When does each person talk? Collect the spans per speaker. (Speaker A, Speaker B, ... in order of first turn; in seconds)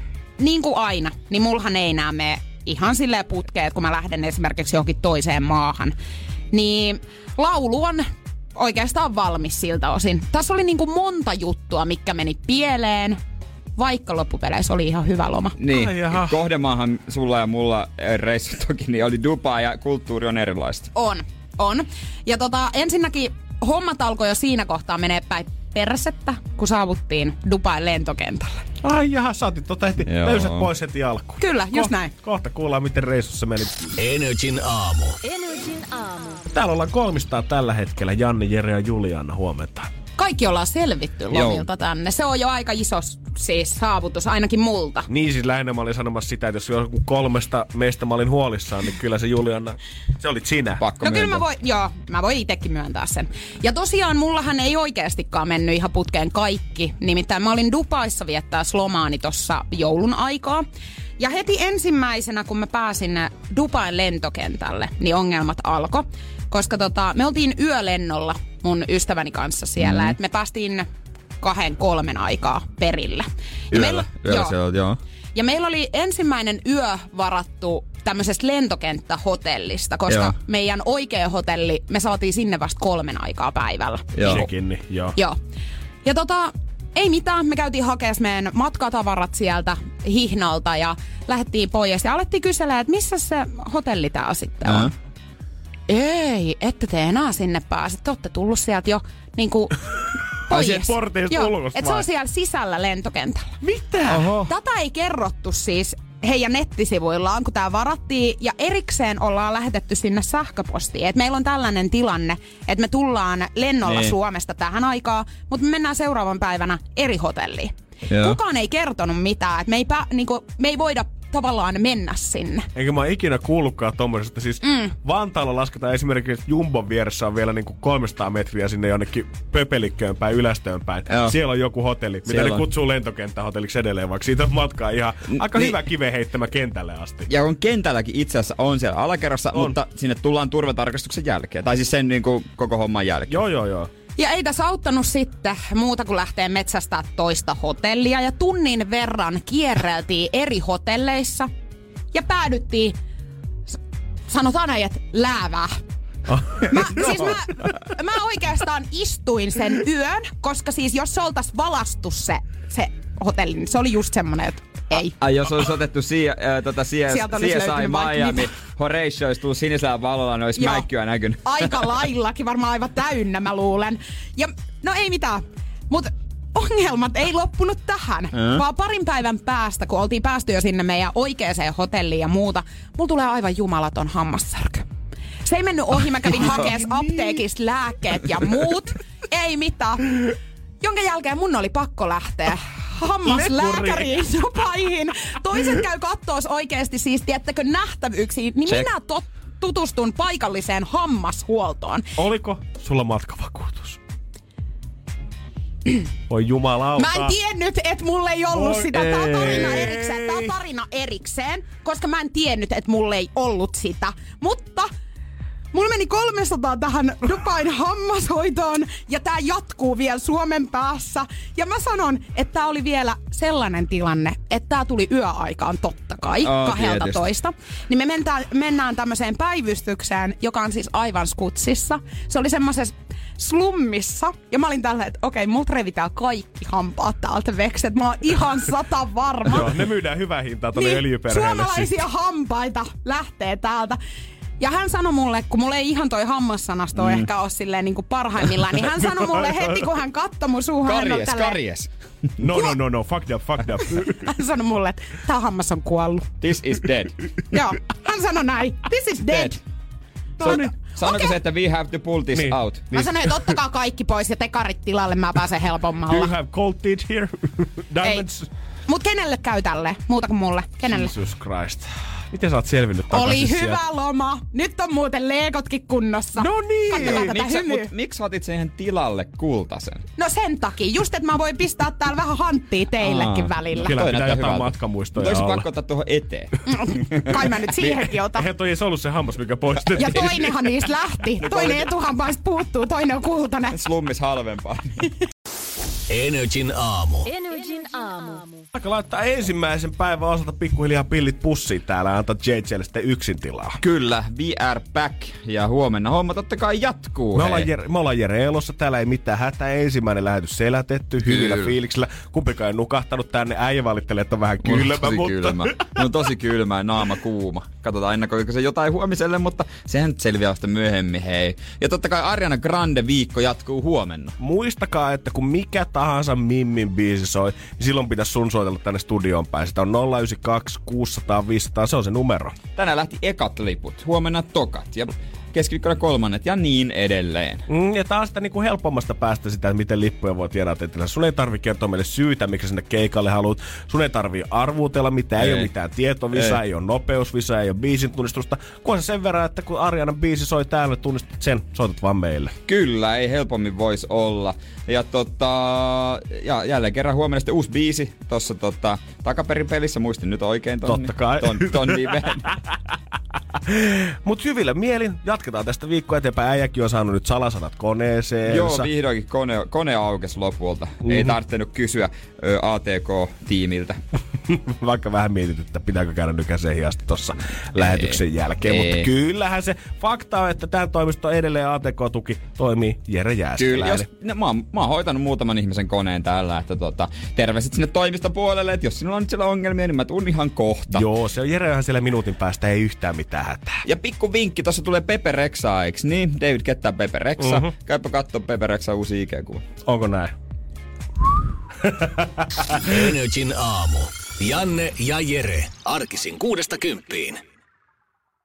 Speaker A: 0.4-5.9, 6.5-13.2, 13.8-15.6, 20.9-28.6, 31.4-32.1, 40.2-45.1, 51.0-60.6, 61.2-70.9, 71.4-74.5, 75.3-84.4, 86.0-94.9, 95.9-99.8, 100.5-103.6, 104.5-122.7, 124.6-124.9, 144.2-151.5, 152.1-152.9, 153.7-155.8, 156.6-165.1, 167.1-168.5, 170.6-170.8, 171.4-184.8, 185.4-202.0, 207.0-214.9, 215.7-239.8, 240.7-244.0, 244.6-251.6, 254.1-256.3, 257.5-259.6, 261.0-261.3, 262.9-266.3, 268.9-271.1, 273.1-277.9, 280.2-283.9, 286.6-288.5, 289.9-293.8
Speaker B: 15.6-20.9, 30.0-30.7, 41.3-41.6, 50.8-51.4, 69.8-70.1, 73.7-75.0, 80.1-80.3, 84.1-84.5, 94.7-94.9, 104.1-104.5, 113.9-114.1, 118.1-118.4, 131.1-131.3, 132.2-132.6, 135.3-135.7, 137.3-143.4, 165.2-171.7, 178.3-178.6, 226.4-227.2, 246.9-247.2, 250.8-252.3, 256.4-257.2, 259.3-259.6, 260.4-262.9, 276.9-280.0, 283.0-287.2, 289.8-290.2, 293.7-295.1, 303.8-307.7, 311.2-311.7, 314.6-324.4, 332.8-337.6, 345.4-345.7, 352.7-362.5, 368.4-374.0, 377.8-379.1, 383.6-391.1, 393.8-399.6
Speaker C: 15.7-16.4, 28.8-33.9, 36.5-39.9, 45.1-50.8, 84.2-85.2, 100.5-102.0, 103.6-104.3, 122.7-137.3, 139.5-139.8, 143.3-143.9, 156.3-157.7, 186.4-187.4, 193.2-194.2, 202.2-204.0, 206.3-207.3, 208.5-210.5, 239.5-241.9, 252.4-254.3, 260.4-260.8, 262.3-263.5, 266.1-268.5, 270.9-273.8, 276.4-277.3, 283.8-285.7, 288.2-290.7, 291.4-291.9, 298.7-303.8, 307.3-316.0, 324.4-332.5, 337.7-352.5, 360.8-362.7, 363.6-368.9, 371.0-371.4, 374.5-384.1, 390.9-393.8, 397.4-397.7, 399.8-400.3, 401.8-402.4
Speaker D: 34.0-36.1, 296.1-297.4, 402.7-407.4